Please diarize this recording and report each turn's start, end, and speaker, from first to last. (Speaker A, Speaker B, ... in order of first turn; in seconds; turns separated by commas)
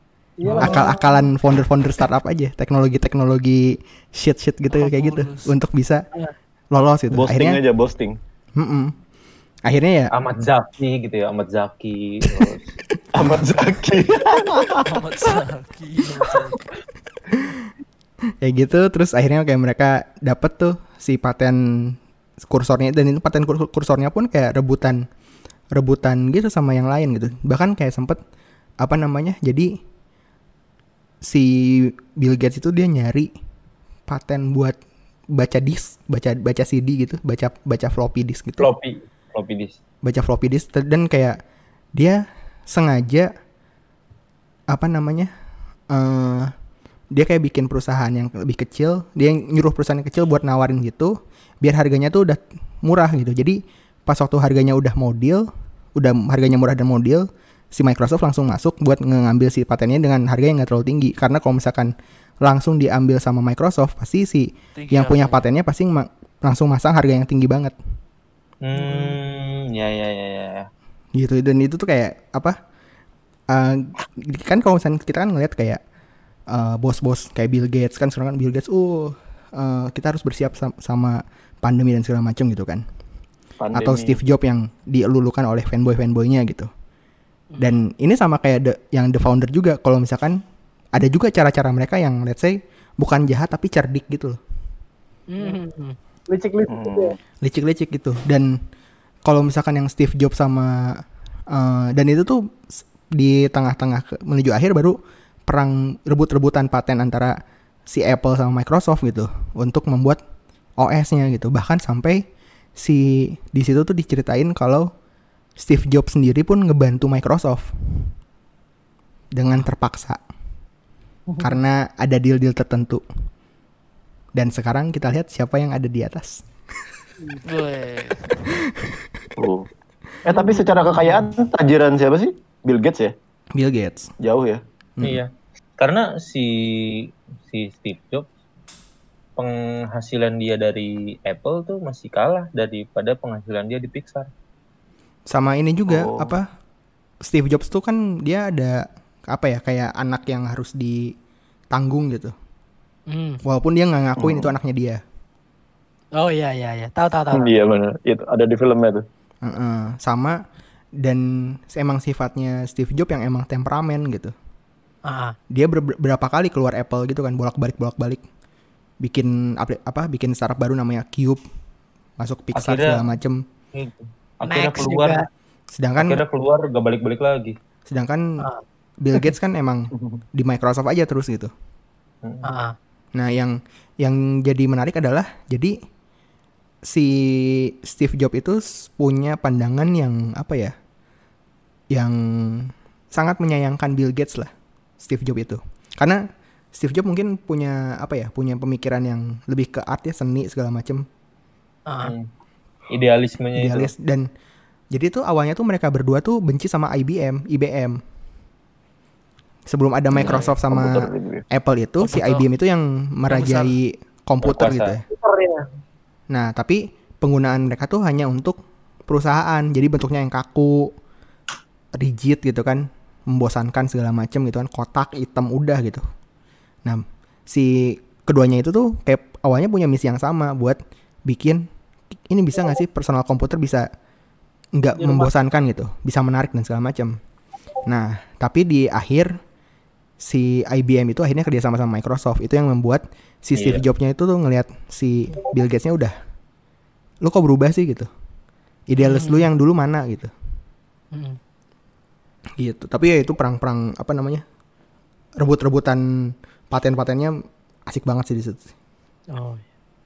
Speaker A: 0.4-1.3, Speaker B: 0.5-6.1, Speaker C: 4.7-5.5, Speaker B: 6.7-7.6, Speaker D: 7.1-8.2, Speaker B: 8.6-9.0, Speaker B: 9.7-10.1, Speaker E: 10.1-12.7, Speaker D: 13.1-15.0, Speaker C: 14.8-16.7, Speaker B: 18.4-22.0, Speaker B: 22.5-25.0, Speaker B: 25.7-28.2, Speaker B: 28.8-29.8, Speaker B: 31.2-33.3, Speaker B: 34.1-34.8, Speaker B: 35.3-38.7, Speaker E: 38.6-39.8, Speaker B: 40.0-41.4, Speaker B: 42.0-43.3, Speaker B: 44.7-45.3, Speaker B: 45.9-46.5, Speaker B: 47.1-67.7, Speaker C: 64.8-65.5, Speaker E: 68.6-70.7, Speaker B: 71.2-72.6, Speaker B: 73.5-75.8, Speaker B: 76.5-82.8, Speaker D: 83.6-84.2, Speaker B: 83.8-86.7, Speaker B: 87.6-90.4, Speaker B: 91.0-94.4, Speaker F: 95.3-96.0, Speaker A: 96.3-97.2, Speaker D: 96.7-97.2, Speaker B: 97.4-98.5, Speaker B: 99.3-102.4, Speaker B: 103.1-107.4, Speaker B: 107.9-110.2, Speaker B: 110.8-112.2, Speaker B: 112.8-114.9, Speaker B: 115.6-118.1, Speaker B: 119.3-120.2, Speaker B: 121.4-123.0, Speaker B: 124.3-126.4, Speaker C: 127.5-128.3, Speaker D: 129.4-129.7, Speaker D: 130.3-133.1, Speaker A: 130.4-130.7, Speaker B: 133.6-134.1, Speaker D: 134.2-134.6, Speaker E: 135.0-138.3, Speaker E: 139.4-144.3, Speaker B: 145.3-146.5, Speaker D: 145.9-146.3, Speaker B: 147.2-151.1, Speaker B: 151.7-152.3, Speaker F: 153.1-153.4, Speaker B: 153.4-155.0, Speaker D: 154.2-154.5, Speaker F: 156.2-157.5, Speaker D: 157.3-159.0, Speaker B: 159.4-160.4, Speaker B: 161.0-164.3, Speaker F: 165.1-165.3, Speaker B: 165.5-168.2, Speaker B: 169.0-171.4, Speaker B: 172.2-173.4, Speaker E: 172.6-173.0, Speaker E: 173.8-175.2, Speaker F: 174.4-175.3, Speaker B: 175.7-176.2, Speaker E: 176.0-177.6, Speaker B: 177.9-178.5, Speaker B: 179.0-181.5, Speaker D: 179.9-180.2, Speaker F: 182.4-182.8, Speaker B: 183.2-185.8, Speaker B: 186.9-190.7, Speaker B: 191.9-196.2, Speaker B: 196.7-201.1, Speaker F: 201.9-202.2, Speaker E: 202.0-202.3, Speaker E: 202.9-203.9, Speaker B: 203.6-204.3, Speaker B: 204.9-208.0, Speaker B: 209.7-215.0, Speaker D: 210.1-211.4, Speaker C: 212.0-212.5, Speaker C: 213.3-213.7, Speaker E: 214.4-215.0, Speaker B: 216.3-220.9, Speaker B: 222.0-226.0, Speaker B: 226.8-231.7, Speaker B: 232.3-233.9, Speaker B: 234.8-237.2, Speaker A: 235.0-235.3, Speaker B: 237.9-239.4, Speaker B: 240.2-246.1, Speaker E: 243.6-243.8, Speaker B: 247.2-248.1, Speaker B: 248.9-250.3, Speaker F: 249.0-249.5, Speaker F: 251.1-251.4, Speaker B: 252.6-254.4, Speaker B: 255.4-257.3, Speaker B: 257.9-258.7, Speaker F: 259.3-259.6